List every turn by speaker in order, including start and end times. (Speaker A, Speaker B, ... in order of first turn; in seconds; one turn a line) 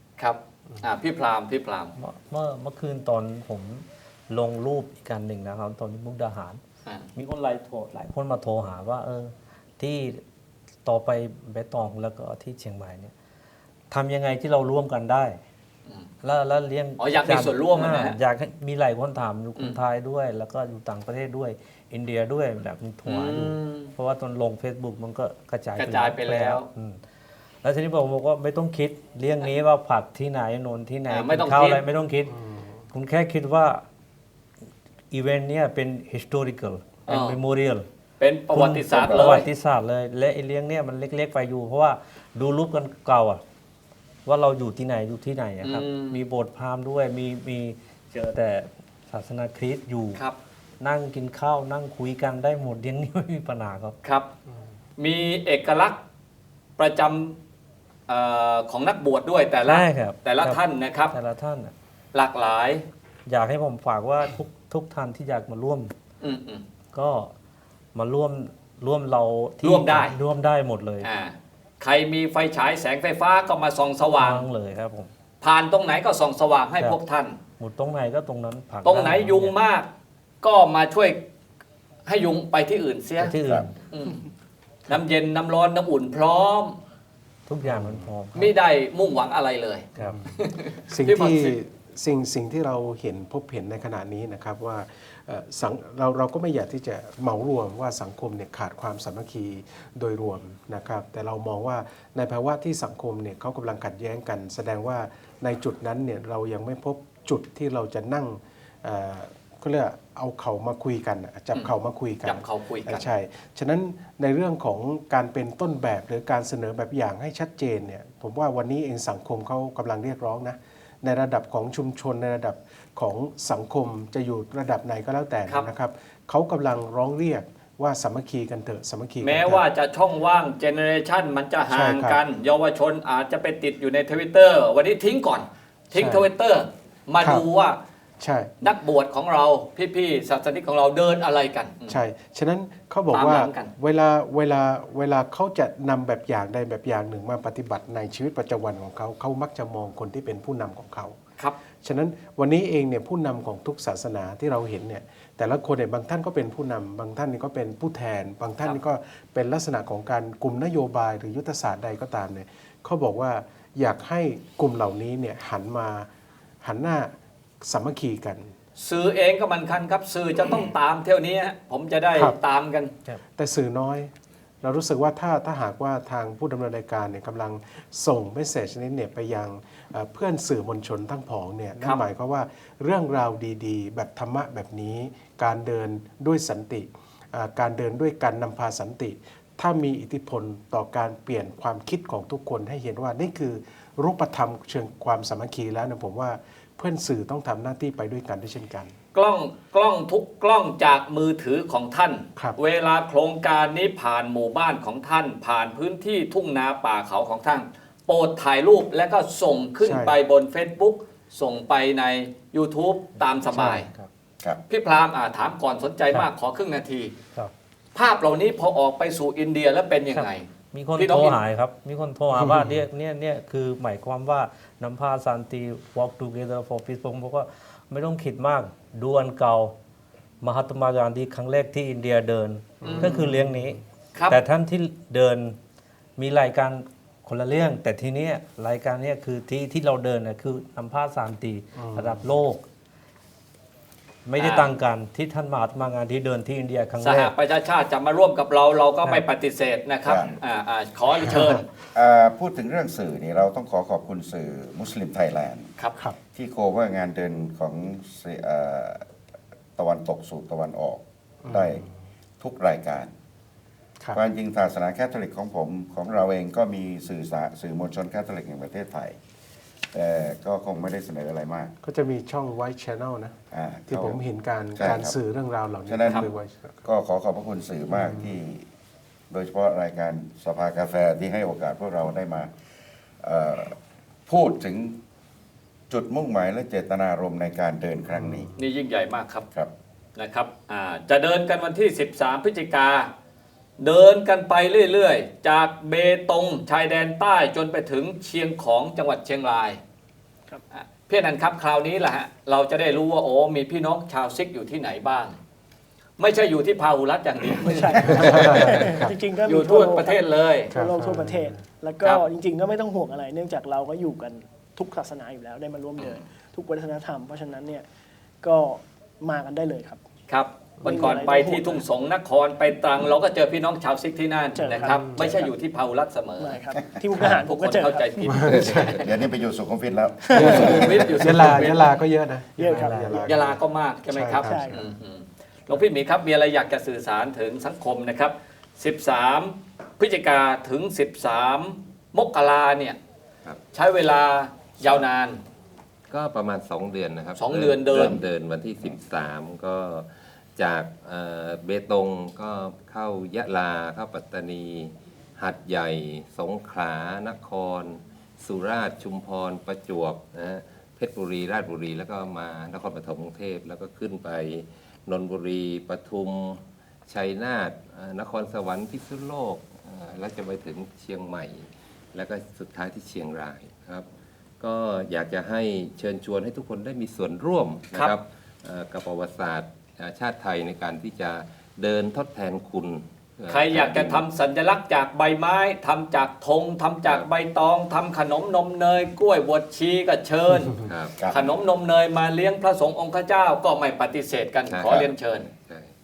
Speaker A: 0.2-1.9
Speaker B: 2.0-6.6
Speaker B: 7.2-10.2
Speaker B: 10.8-13.1
Speaker B: 13.9-15.4
Speaker B: 16.2-27.0
Speaker A: 17.0-18.2
Speaker A: 23.1-23.9
Speaker A: 25.8-26.7
Speaker B: 27.6-32.4
Speaker A: 31.1-31.8
Speaker C: 32.3-32.8
Speaker B: 32.9-33.8
Speaker B: 35.1-37.9
Speaker A: 37.1-37.4
Speaker A: 38.2-39.5
Speaker B: 38.5-43.4
Speaker B: 44.3-50.2
Speaker A: 45.6-46.2
Speaker B: 50.8-54.0
Speaker A: 54.0-54.3
Speaker A: 55.0-56.0
Speaker A: 56.8-57.4
Speaker A: 58.1-61.2
Speaker B: 59.7-61.7
Speaker A: 62.1-62.9
Speaker B: 63.3-65.9
Speaker A: 66.2-66.6
Speaker B: 66.9-67.3
Speaker B: 67.9-71.1
Speaker A: 69.6-70.2
Speaker A: 71.0-74.5
Speaker B: 74.2-75.1
Speaker A: 75.4-77.4
Speaker B: 77.6-79.6
Speaker A: 78.8-79.9
Speaker A: 80.4-81.2
Speaker A: 82.1-83.3
Speaker B: 83.2-83.8
Speaker D: 83.5-83.7
Speaker A: 83.9-84.2
Speaker A: 84.9-86.8
Speaker B: 87.5-88.5
Speaker C: 87.6-88.1
Speaker A: 88.3-91.6
Speaker C: 90.0-129.7
Speaker A: 112.2-113.1
Speaker A: 129.2-137.8
Speaker C: 131.7-132.2
Speaker C: 135.9-136.3
Speaker C: 137.2-137.5
Speaker C: 138.2-138.5
Speaker A: 138.6-142.0
Speaker C: 141.9-151.2
Speaker A: 143.1-143.7
Speaker C: 151.8-166.1
Speaker C: 166.6-167.1
Speaker C: 167.7-168.5
Speaker A: 168.8-172.9
Speaker C: 173.1-198.9
Speaker A: 199.1-213.9
Speaker C: 209.8-210.2
Speaker B: 213.7-214.1
Speaker A: 214.7-217.1
Speaker A: 217.9-221.4
Speaker B: 220.1-229.7
Speaker C: 222.3-222.8
Speaker B: 230.4-235.6
Speaker C: 232.8-233.8
Speaker A: 232.8-233.3
Speaker A: 234.1-234.4
Speaker B: 236.2-242.6
Speaker C: 241.8-242.3
Speaker B: 244.3-247.3
Speaker A: 244.4-244.7
Speaker A: 247.0-251.7
Speaker D: 250.0-250.4
Speaker D: 251.9-255.7
Speaker D: 256.3-259.1
Speaker D: 259.8-261.9
Speaker C: 261.4-261.9
Speaker D: 262.4-263.1
Speaker D: 264.1-269.2
Speaker D: 269.9-271.7
Speaker C: 271.8-276.8
Speaker D: 273.5-275.2
Speaker D: 275.9-276.3
Speaker D: 276.8-278.7
Speaker C: 277.9-278.4
Speaker D: 279.3-282.5
Speaker D: 283.2-283.8
Speaker D: 284.3-285.0
Speaker D: 285.9-288.5
Speaker C: 288.1-288.5
Speaker A: 288.6-289.5
Speaker A: 290.2-293.1
Speaker A: 293.8-299.8
Speaker A: 300.7-305.4
Speaker A: 306.2-308.9
Speaker E: 307.6-317.9
Speaker C: 308.0-309.1
Speaker A: 309.4-310.7
Speaker C: 310.7-311.6
Speaker A: 316.0-316.2
Speaker E: 318.4-320.0
Speaker A: 320.3-326.6
Speaker E: 320.8-321.9
Speaker E: 324.6-325.5
Speaker C: 324.8-325.3
Speaker E: 326.4-328.3
Speaker C: 327.2-327.4
Speaker A: 327.3-329.1
Speaker C: 328.3-329.0
Speaker D: 329.0-331.4
Speaker C: 330.3-334.9
Speaker A: 330.4-332.0
Speaker E: 332.6-333.3
Speaker A: 333.2-343.0
Speaker E: 334.4-334.8
Speaker A: 343.7-345.4
Speaker F: 346.1-374.1
Speaker A: 347.4-348.2
Speaker F: 374.6-384.3
Speaker A: 383.5-390.8
Speaker F: 390.9-391.1
Speaker D: 391.2-391.6
Speaker A: 391.3-395.5
Speaker F: 394.7-395.9